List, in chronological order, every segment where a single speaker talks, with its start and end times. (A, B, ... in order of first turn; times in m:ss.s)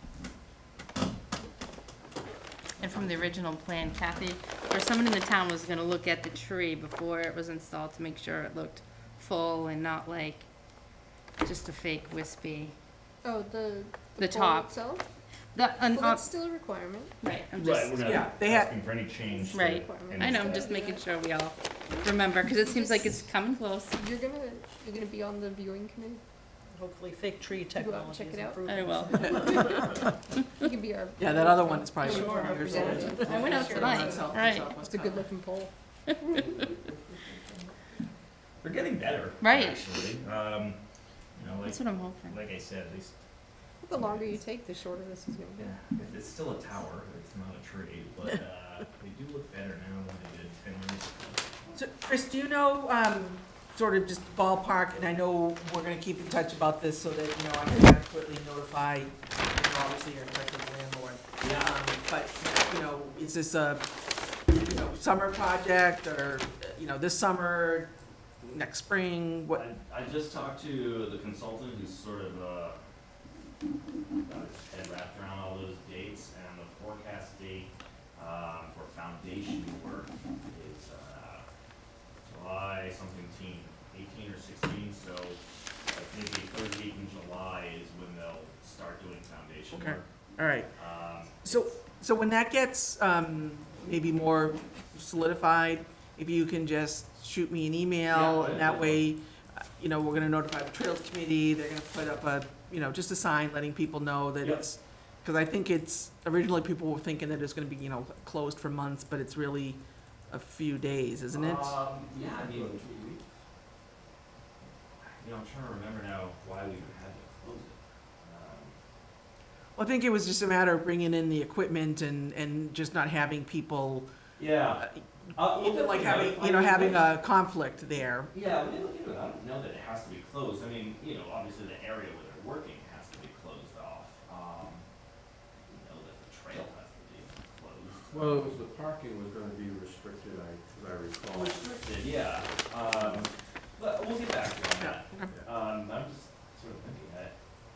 0:02.8-0:10.5 A
0:11.4-0:12.8 A
0:13.2-0:15.1 B
0:14.2-0:14.7 A
0:15.5-0:16.2 A
0:15.9-0:17.1 B
0:17.2-0:18.0 A
0:17.6-0:20.6 C
0:18.0-0:18.8 D
0:19.4-0:21.1 B
0:19.5-0:24.0 A
0:22.5-0:23.3 B
0:23.9-0:26.2 B
0:26.7-0:30.1 E
0:27.6-0:36.5 B
0:28.7-0:29.7 A
0:31.2-0:35.2 D
0:32.0-0:34.7 A
0:32.8-0:33.1 E
0:38.6-0:40.8 C
0:39.4-0:39.9 A
0:41.3-0:43.1 C
0:41.6-0:42.4 A
0:43.8-0:45.8 B
0:43.9-0:44.3 C
0:45.6-0:51.4 C
0:51.7-1:03.9 D
1:01.4-1:01.8 C
1:04.5-1:09.6 D
1:09.5-1:12.8 C
1:14.2-1:21.4 C
1:22.2-1:30.1 C
1:29.7-1:30.7 D
1:30.8-1:31.8 C
1:31.4-1:51.8 D
1:38.1-1:39.1 C
1:51.3-1:53.2 C
1:52.1-1:52.8 F
1:55.0-1:58.8 C
1:59.8-2:04.1 D
2:04.4-2:07.1 C
2:04.8-2:08.3 D
2:08.3-2:14.8 C
2:15.7-2:18.6 C
2:18.1-2:21.6 F
2:21.3-2:27.3 C
2:24.8-2:25.3 D